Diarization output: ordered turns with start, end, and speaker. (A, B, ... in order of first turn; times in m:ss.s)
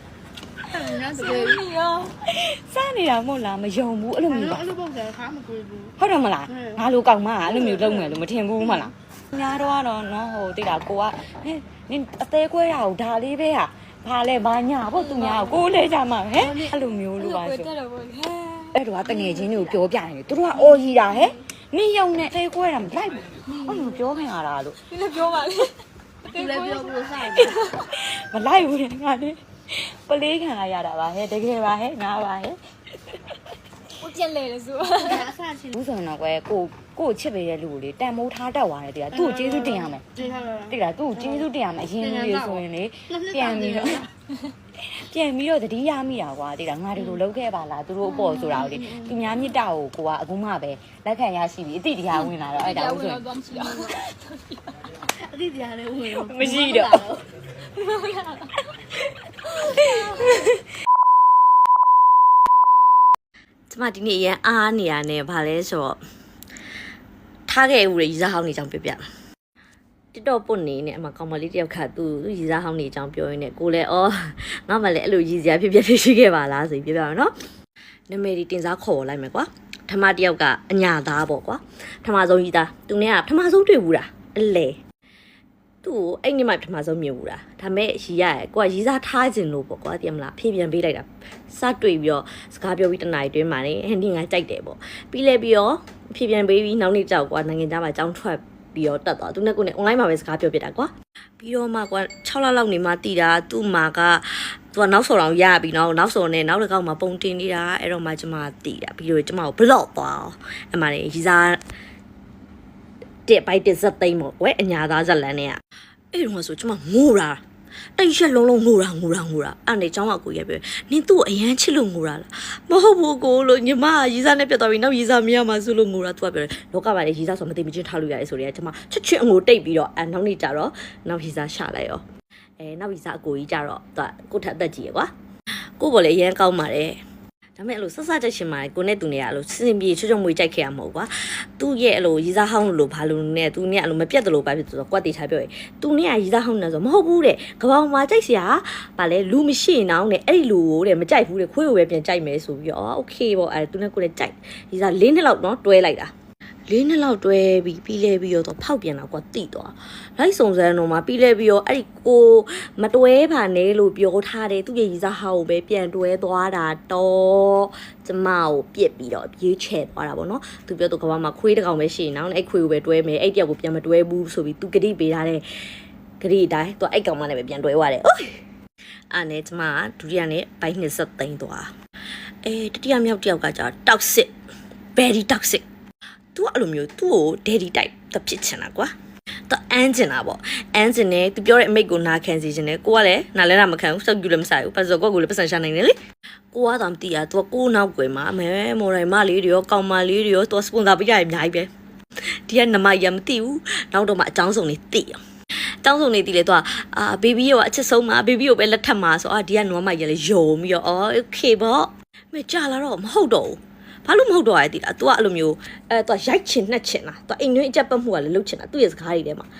0:00.6-0:01.7 A
0:01.1-0:02.1 B
0:02.2-0:04.6 C
0:04.3-0:06.8 A
0:06.0-0:17.7 C
0:07.4-0:08.9 A
0:14.9-0:15.7 B
0:16.3-0:16.7 A
0:17.2-0:18.7 B
0:18.7-0:24.8 C
0:19.0-0:19.8 A
0:20.5-0:21.4 A
0:23.4-0:24.0 A
0:24.9-0:27.9 B
0:26.3-0:27.6 A
0:27.8-0:32.6 C
0:34.0-0:35.3 B
0:35.0-0:35.7 A
0:35.7-0:40.0 C
0:39.1-0:41.5 A
0:40.7-0:44.0 C
0:42.0-0:44.1 A
0:44.9-0:53.9 C
0:48.0-0:49.2 A
0:52.2-0:54.6 B
0:55.2-0:57.3 A
0:56.1-0:57.0 C
0:57.7-0:58.5 B
0:59.4-1:00.4 B
0:59.7-1:00.6 C
1:03.7-1:06.0 D
1:07.5-1:09.0 D
1:10.1-1:17.3 D
1:18.1-1:24.8 D
1:25.8-1:51.6 D
1:53.2-1:55.6 D
1:56.1-1:57.4 D
1:58.0-2:12.0 D
2:12.6-2:15.1 D
2:15.8-2:17.0 D
2:17.6-2:36.1 D
2:36.7-2:55.4 D
2:56.2-2:58.4 D
2:59.1-3:01.7 D
3:02.4-3:04.3 D
3:05.0-3:05.6 D
3:06.3-3:08.9 D
3:09.5-3:16.0 D
3:16.5-3:21.7 D
3:22.5-3:25.2 D
3:25.8-3:39.5 D